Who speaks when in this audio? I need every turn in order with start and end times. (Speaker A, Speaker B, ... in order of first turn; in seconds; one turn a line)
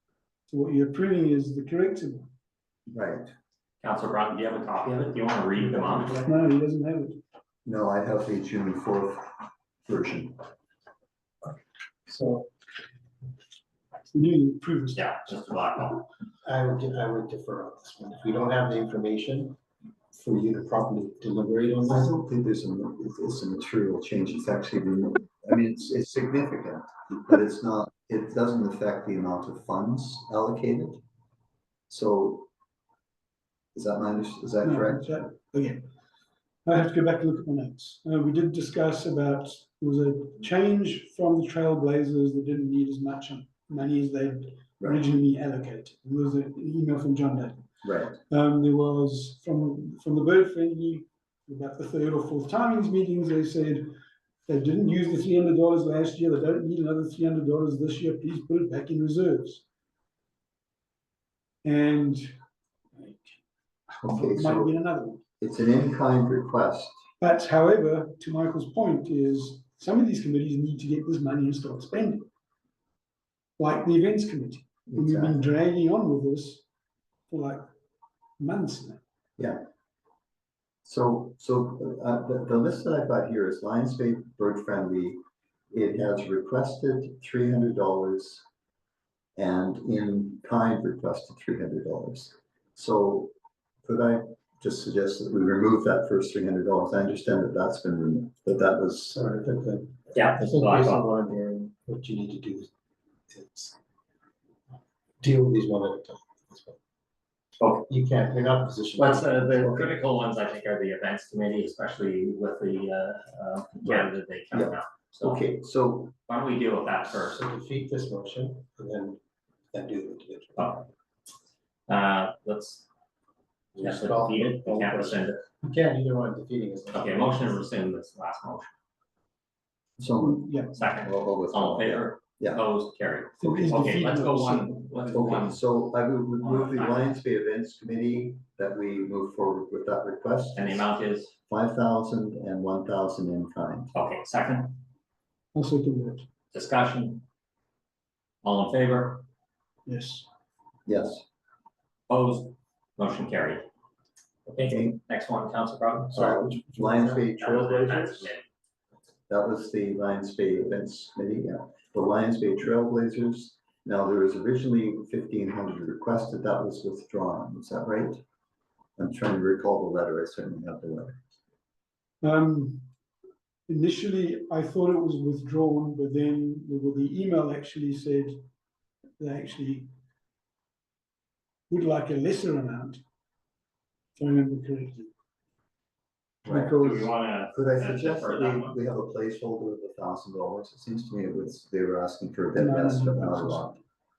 Speaker A: 0.5-2.3
Speaker B: 2.9-3.3
Speaker C: 3.8-6.2
Speaker A: 6.2-7.2
Speaker B: 7.7-9.3
Speaker B: 9.9-10.4
Speaker D: 12.1-12.5
Speaker A: 14.1-15.1
Speaker C: 14.9-16.1
Speaker D: 16.4-19.6
Speaker D: 20.1-22.1
Speaker B: 21.9-31.0
Speaker B: 31.9-32.5
Speaker B: 33.8-35.2
Speaker A: 34.6-35.8
Speaker A: 36.7-47.6
Speaker B: 47.8-48.2
Speaker A: 48.2-54.0
Speaker A: 54.5-59.6
Speaker A: 61.6-62.3
Speaker A: 63.0-63.4
Speaker A: 63.9-65.2
Speaker B: 64.0-64.8
Speaker B: 65.4-66.9
Speaker A: 67.2-72.3
Speaker A: 73.6-76.6
Speaker B: 74.9-75.4
Speaker A: 77.3-77.6
Speaker A: 78.4-79.0
Speaker B: 80.8-85.2
Speaker B: 85.7-88.4
Speaker B: 89.4-93.3
Speaker B: 93.8-99.2
Speaker D: 99.1-102.7
Speaker C: 100.1-101.1
Speaker D: 103.3-103.8
Speaker D: 105.2-106.8
Speaker C: 107.6-107.9
Speaker D: 107.9-109.9
Speaker C: 109.0-115.4
Speaker B: 113.8-116.1
Speaker C: 116.3-117.4
Speaker D: 117.1-119.2
Speaker D: 119.7-120.8
Speaker C: 120.6-120.8
Speaker C: 121.9-122.9
Speaker C: 123.7-125.4
Speaker D: 123.8-127.5
Speaker C: 126.9-128.7
Speaker B: 130.0-132.6
Speaker A: 130.2-130.8
Speaker C: 130.7-135.6
Speaker A: 133.4-135.1
Speaker B: 135.1-143.9
Speaker C: 136.4-137.1
Speaker C: 140.5-141.3
Speaker C: 143.9-144.8
Speaker A: 145.5-146.2
Speaker C: 146.5-147.2
Speaker C: 148.4-149.2
Speaker A: 149.8-150.3
Speaker B: 150.8-151.2
Speaker C: 152.1-153.6
Speaker C: 154.5-158.4
Speaker B: 154.7-155.0
Speaker B: 156.1-158.3
Speaker B: 159.3-168.2
Speaker B: 169.0-171.2
Speaker A: 172.2-172.8
Speaker A: 173.7-178.4
Speaker A: 179.2-179.9
Speaker A: 181.7-183.0
Speaker A: 184.2-185.1
Speaker B: 186.4-193.8
Speaker C: 186.5-188.7
Speaker A: 192.5-193.7